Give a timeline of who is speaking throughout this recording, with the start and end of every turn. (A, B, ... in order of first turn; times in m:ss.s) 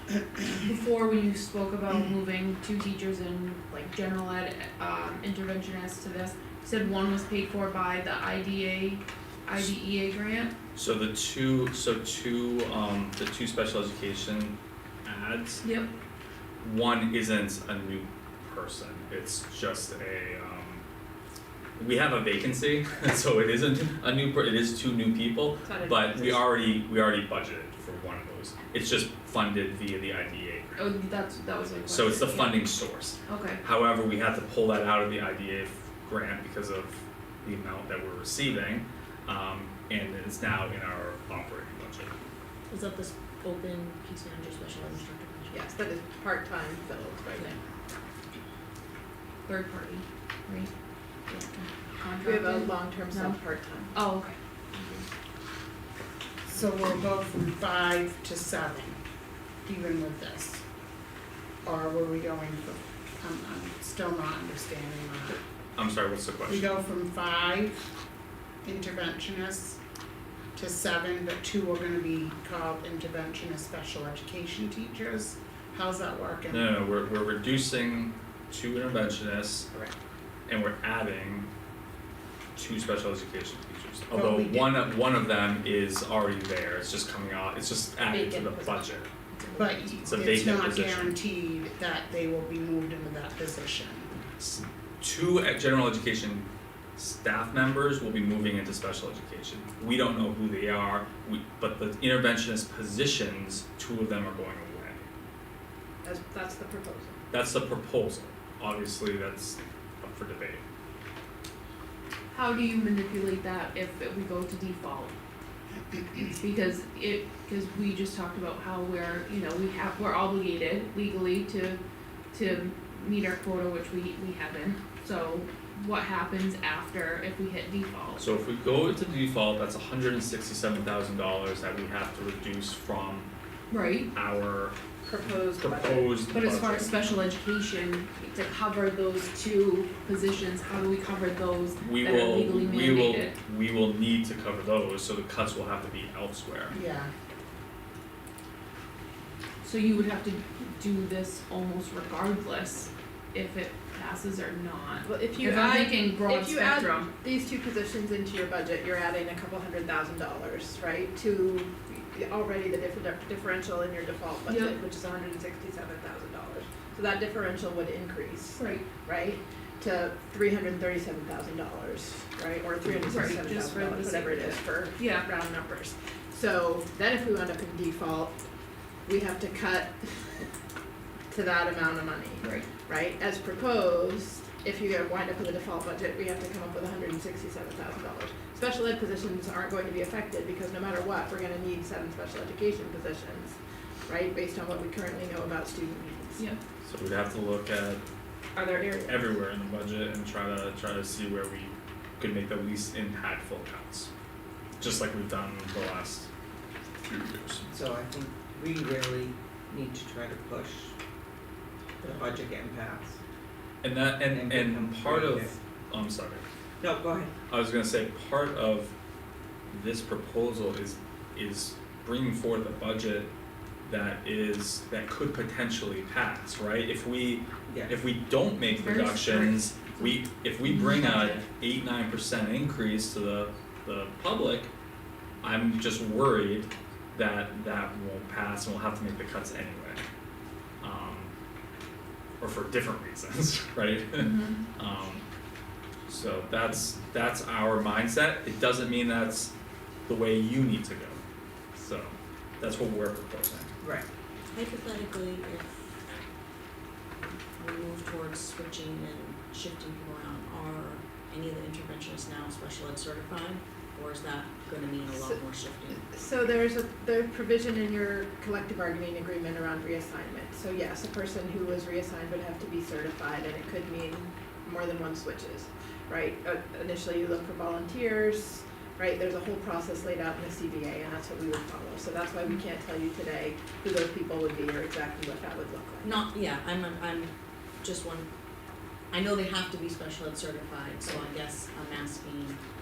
0:00.5-0:10.5 A
0:10.8-0:15.6 B
0:15.6-0:15.9 A
0:16.6-0:20.8 B
0:21.8-0:30.8 B
0:25.7-0:26.2 A
0:30.8-0:32.7 A
0:31.9-0:42.1 B
0:33.3-0:33.6 A
0:42.7-0:45.7 C
0:45.5-0:47.6 D
0:49.5-0:50.7 A
0:52.0-0:53.4 A
0:52.2-0:53.9 D
0:53.9-0:55.1 A
0:56.5-0:59.0 E
0:59.6-1:00.6 E
1:01.6-1:05.4 E
1:05.8-1:06.7 B
1:06.5-1:07.8 E
1:08.6-1:09.8 E
1:10.6-1:16.8 E
1:16.5-1:19.7 B
1:20.5-1:21.5 B
1:22.6-1:29.1 B
1:24.1-1:24.8 E
1:28.0-1:28.8 D
1:29.6-1:34.2 E
1:30.0-1:31.2 B
1:34.4-1:45.1 B
1:46.0-1:47.2 D
1:47.3-1:50.6 B
1:52.3-1:55.2 A
1:56.4-2:01.8 A
2:02.3-2:08.4 A
2:08.2-2:13.3 B
2:13.7-2:14.1 A
2:14.1-2:17.0 B
2:15.0-2:16.1 D
2:16.3-2:23.3 A
2:21.8-2:26.8 B
2:26.7-2:27.1 E
2:29.6-2:37.1 A
2:35.0-2:58.4 D
2:44.5-2:44.8 A
2:48.6-2:48.9 A
2:53.0-2:55.3 A
2:59.1-3:00.4 D
3:01.3-3:16.4 D
3:02.4-3:02.7 A
3:16.8-3:18.0 B
3:18.6-3:19.4 D
3:19.0-3:24.1 B
3:24.8-3:26.3 B
3:27.0-3:27.7 B
3:27.7-3:31.0 F
3:32.0-3:33.2 F
3:33.8-3:36.4 B
3:34.2-3:35.6 F
3:36.8-3:37.3 F
3:37.5-3:38.9 B
3:39.7-3:43.3 B
3:43.8-3:54.7 B
3:47.7-3:48.0 F
3:48.6-3:51.4 A
3:55.4-4:00.0 B
4:00.8-4:01.3 B
4:02.4-4:05.2 B
4:04.2-4:04.6 A
4:06.1-4:09.5 B
4:10.1-4:11.2 B
4:11.8-4:13.7 B
4:13.8-4:14.1 F
4:14.5-4:16.0 C
4:17.6-4:26.0 C
4:25.1-4:25.4 D
4:26.0-4:46.2 D
4:46.0-4:48.3 C
4:49.1-4:52.6 C